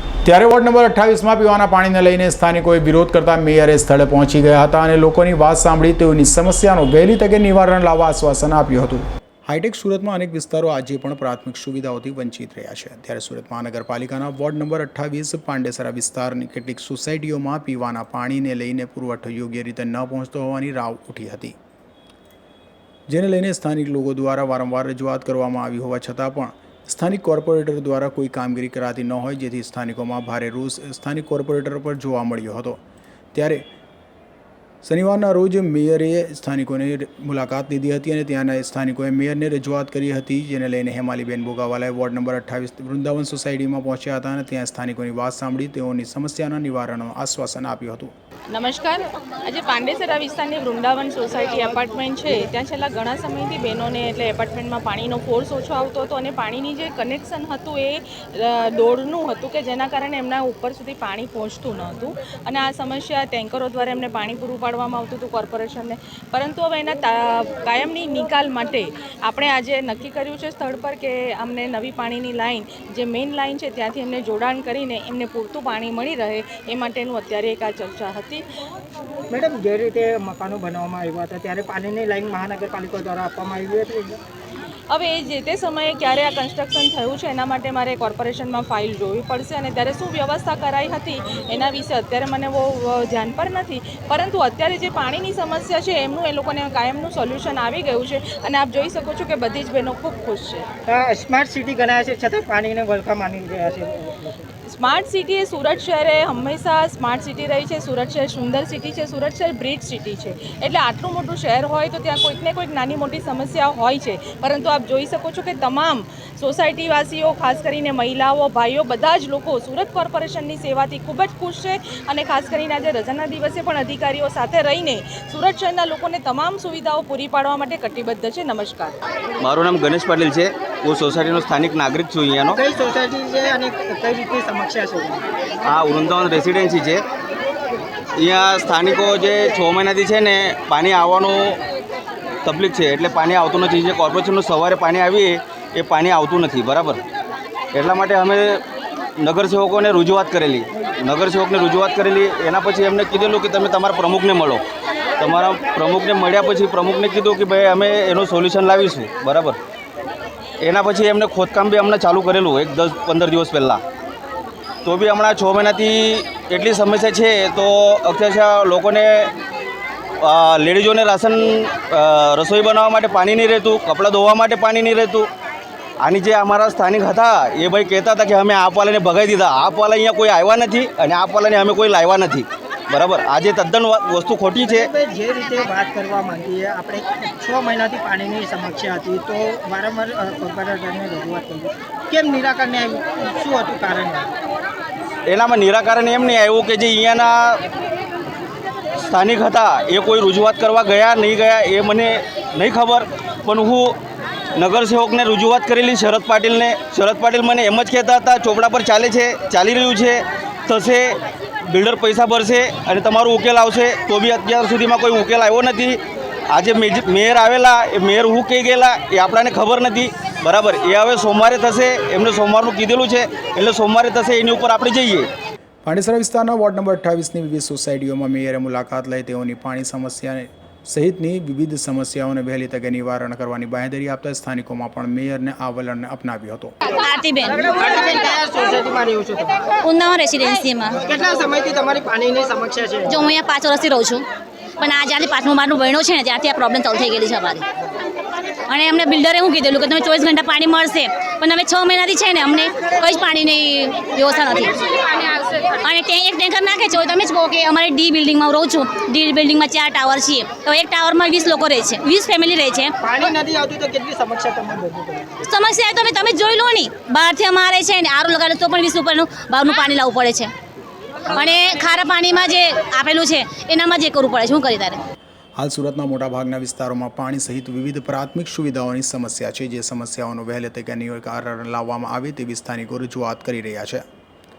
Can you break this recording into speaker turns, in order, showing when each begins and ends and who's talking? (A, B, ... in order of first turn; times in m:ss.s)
0:00.2-0:21.5 A
0:23.1-0:32.8 A
0:33.3-0:33.6 A
0:34.8-0:48.1 A
0:48.5-1:18.4 B
1:19.3-1:24.2 C
1:24.9-1:40.6 B
1:40.9-1:44.5 C
1:44.7-2:08.9 B
2:09.4-2:12.6 D
2:12.6-2:15.2 C
2:15.6-2:17.0 D
2:18.2-2:21.6 D
2:22.4-2:27.0 D
2:27.7-2:28.6 D
2:29.2-2:34.6 D
2:35.2-2:39.6 D
2:40.6-2:43.8 D
2:44.8-2:49.3 D
2:50.2-2:55.3 D
2:56.0-3:04.9 D
3:04.6-3:14.3 C
3:15.3-3:17.6 D
3:19.0-3:24.0 D
3:24.5-3:36.0 D
3:36.5-3:45.3 D
3:45.8-3:56.7 A
3:57.0-3:57.6 E
3:57.6-3:59.6 C
3:59.8-4:01.0 E
4:01.0-4:03.3 C
4:03.1-4:04.2 E
4:04.8-4:07.6 E
4:08.7-4:22.9 E
4:23.0-4:25.4 C
4:25.4-4:30.5 E
4:31.3-4:35.0 E
4:35.6-4:44.0 A